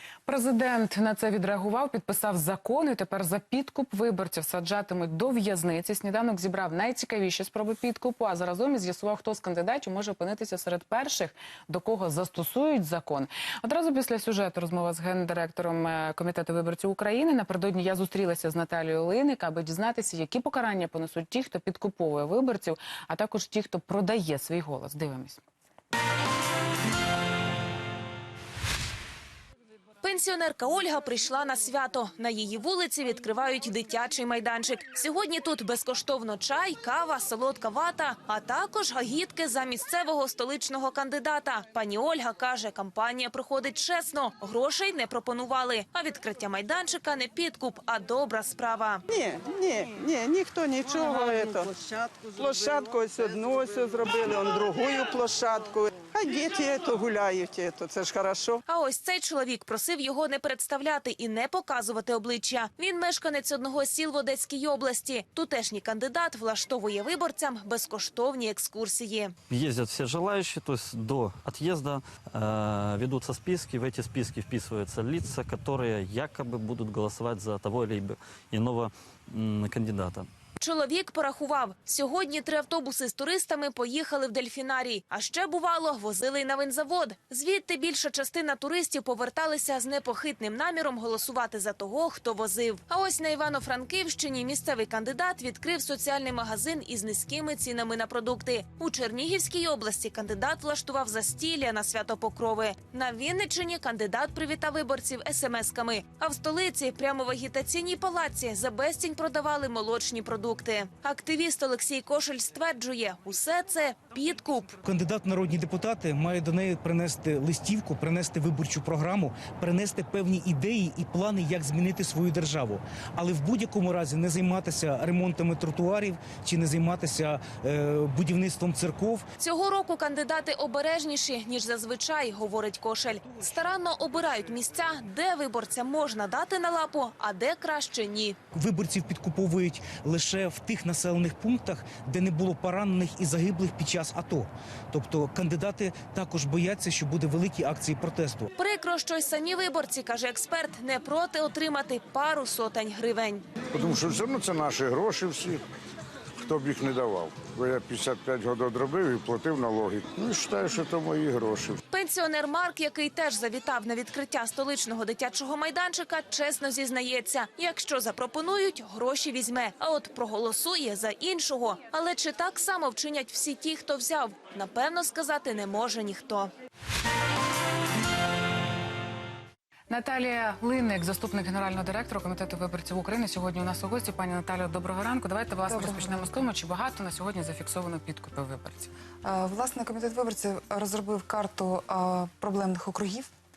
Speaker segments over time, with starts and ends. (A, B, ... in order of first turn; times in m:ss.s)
0:00.3-0:25.4 A
0:30.0-0:49.0 B
0:49.1-0:58.6 C
0:58.7-1:09.3 B
1:09.5-1:20.3 D
1:20.6-1:54.8 B
1:54.8-2:09.2 E
2:09.4-2:18.4 B
2:18.5-2:28.5 E
2:28.6-2:33.4 B
2:33.7-2:35.6 F
2:36.4-2:41.8 F
2:41.9-2:56.5 B
2:59.9-3:08.9 A
3:05.7-3:06.3 G
3:09.2-3:13.3 G